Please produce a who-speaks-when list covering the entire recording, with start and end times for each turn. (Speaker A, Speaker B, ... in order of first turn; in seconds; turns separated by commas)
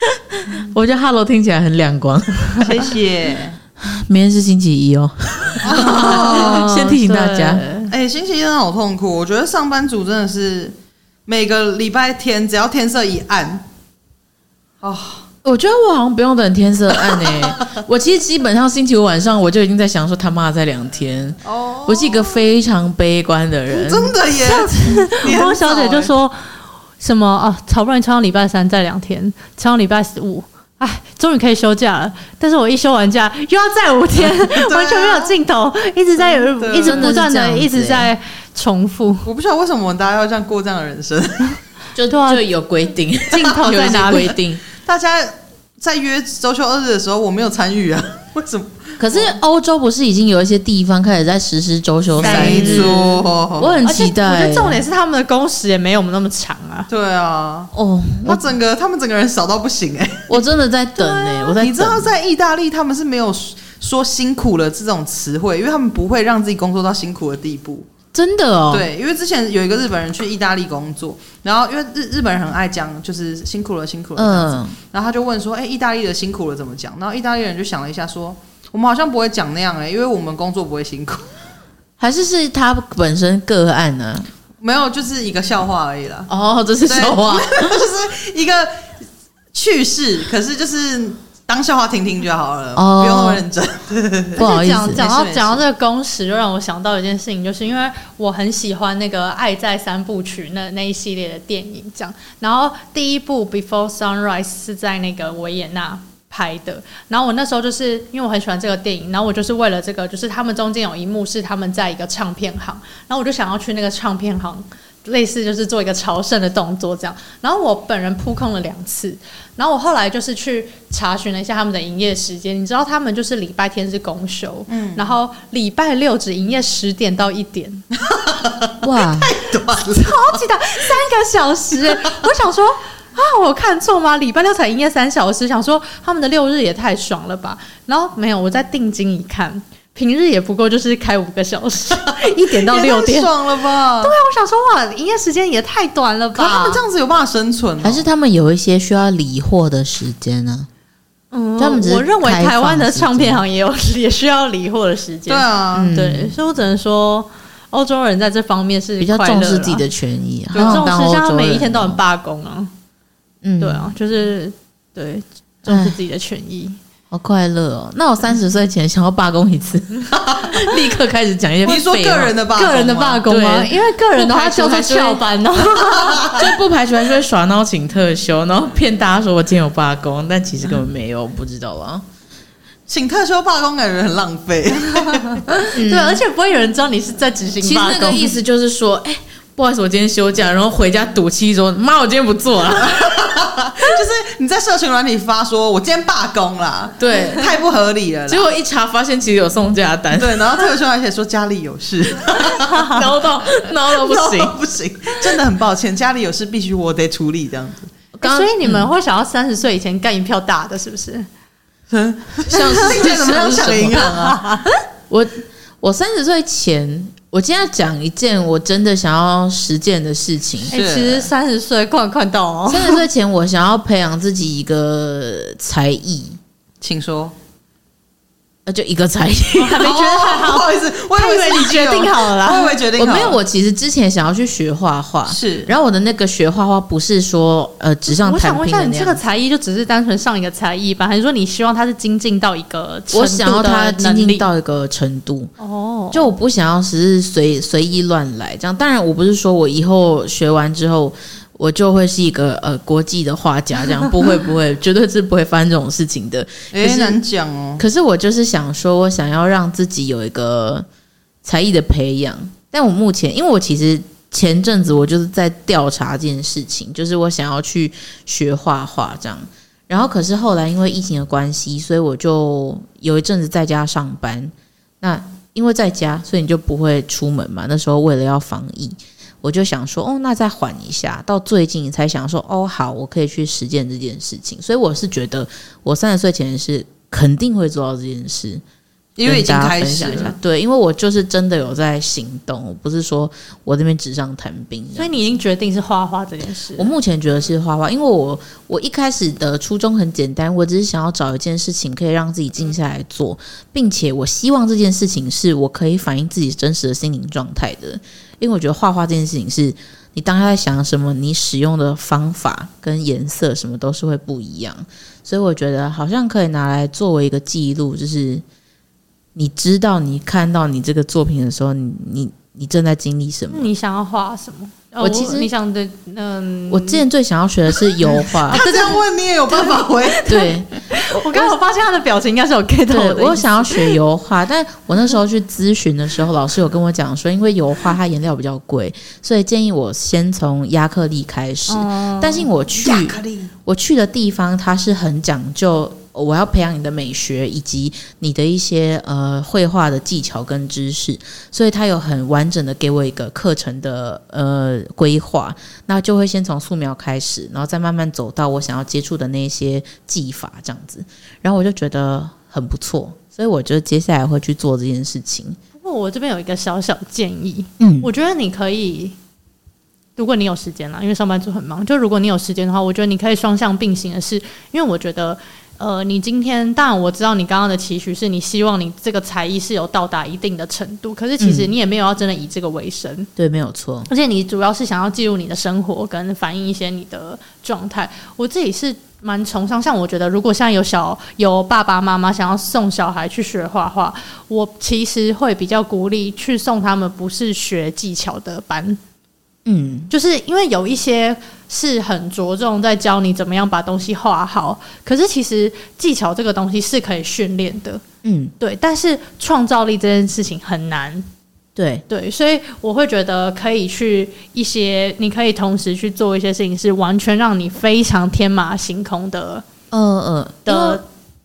Speaker A: 0.3-2.8, Speaker B: 2.6-3.6, Speaker A: 3.8-7.6, Speaker B: 5.6-6.7, Speaker C: 5.7-7.9, Speaker B: 7.9-10.8, Speaker B: 11.3-13.7, Speaker B: 14.8-15.3, Speaker A: 15.4-24.2, Speaker B: 17.0-17.6, Speaker B: 21.4-22.5, Speaker B: 23.7-26.1, Speaker C: 24.4-39.3, Speaker B: 34.3-35.4, Speaker B: 36.6-37.1, Speaker A: 36.8-38.1, Speaker B: 39.2-41.6, Speaker A: 42.0-44.6, Speaker C: 42.1-42.5, Speaker C: 43.3-44.4, Speaker B: 44.7-49.4, Speaker A: 49.0-54.8, Speaker B: 52.2-53.8, Speaker C: 52.2-53.0, Speaker C: 53.9-56.9, Speaker B: 56.9-57.7, Speaker A: 57.7-58.5, Speaker B: 58.2-60.4, Speaker A: 60.3-62.1, Speaker C: 61.0-61.6, Speaker B: 61.6-67.9, Speaker A: 68.1-68.9, Speaker B: 68.7-81.3, Speaker A: 74.2-74.8, Speaker A: 82.0-84.3, Speaker B: 84.6-86.3, Speaker A: 86.3-87.8, Speaker B: 86.9-88.7, Speaker B: 89.5-95.6, Speaker A: 92.8-93.4, Speaker A: 94.4-95.0, Speaker C: 94.4-127.8, Speaker B: 124.7-125.2, Speaker B: 128.0-130.4, Speaker A: 128.8-129.3, Speaker C: 129.7-143.3, Speaker B: 142.0-144.2, Speaker C: 144.0-146.8, Speaker B: 146.3-148.1, Speaker A: 147.8-150.7, Speaker C: 151.3-159.9, Speaker A: 151.6-153.4, Speaker B: 155.3-155.9, Speaker A: 155.7-156.3, Speaker A: 159.0-162.0, Speaker B: 160.5-160.8, Speaker C: 160.6-162.7, Speaker A: 163.4-163.9, Speaker C: 163.6-166.8, Speaker A: 165.7-166.0, Speaker A: 167.1-172.3, Speaker B: 170.1-170.7, Speaker B: 171.7-173.2, Speaker C: 172.6-176.4, Speaker A: 173.3-175.2, Speaker B: 176.0-176.4, Speaker A: 176.3-182.0, Speaker B: 182.9-185.4, Speaker C: 184.9-188.3, Speaker A: 185.7-186.2, Speaker A: 187.6-193.2, Speaker B: 192.8-198.5, Speaker A: 197.0-197.6, Speaker A: 198.3-200.5, Speaker B: 200.1-207.9, Speaker A: 202.5-204.6, Speaker A: 208.2-208.9, Speaker C: 208.2-211.3, Speaker B: 211.9-214.6, Speaker A: 212.5-214.1, Speaker C: 212.5-212.9, Speaker C: 214.1-214.7, Speaker A: 215.1-220.7, Speaker C: 220.7-223.0, Speaker B: 220.7-221.3, Speaker A: 222.7-226.4, Speaker B: 226.8-227.3, Speaker A: 228.7-229.9, Speaker C: 229.6-232.7, Speaker B: 229.8-233.4, Speaker A: 233.0-239.2, Speaker B: 235.3-235.7, Speaker C: 238.1-244.5, Speaker A: 243.1-245.5, Speaker C: 245.6-246.3, Speaker A: 246.1-257.2, Speaker B: 256.7-257.8, Speaker A: 257.8-260.9, Speaker A: 261.4-288.6, Speaker B: 289.2-290.4, Speaker A: 289.2-295.1, Speaker C: 294.9-296.9, Speaker A: 296.8-318.4, Speaker A: 319.4-323.7, Speaker C: 323.5-327.1, Speaker A: 325.0-325.5, Speaker A: 326.7-328.6, Speaker C: 327.9-334.0, Speaker B: 328.5-330.5, Speaker A: 330.3-331.5, Speaker A: 332.9-365.6, Speaker C: 341.7-342.5, Speaker B: 342.8-343.5, Speaker C: 365.8-369.2, Speaker A: 367.8-368.1, Speaker C: 370.2-383.3, Speaker A: 381.4-381.7, Speaker A: 383.4-384.1, Speaker C: 384.1-399.0, Speaker A: 399.7-400.1, Speaker C: 400.1-408.0, Speaker A: 408.2-408.5, Speaker C: 408.6-411.3, Speaker A: 411.8-412.1, Speaker C: 412.1-419.6, Speaker A: 419.9-421.0, Speaker C: 420.7-421.0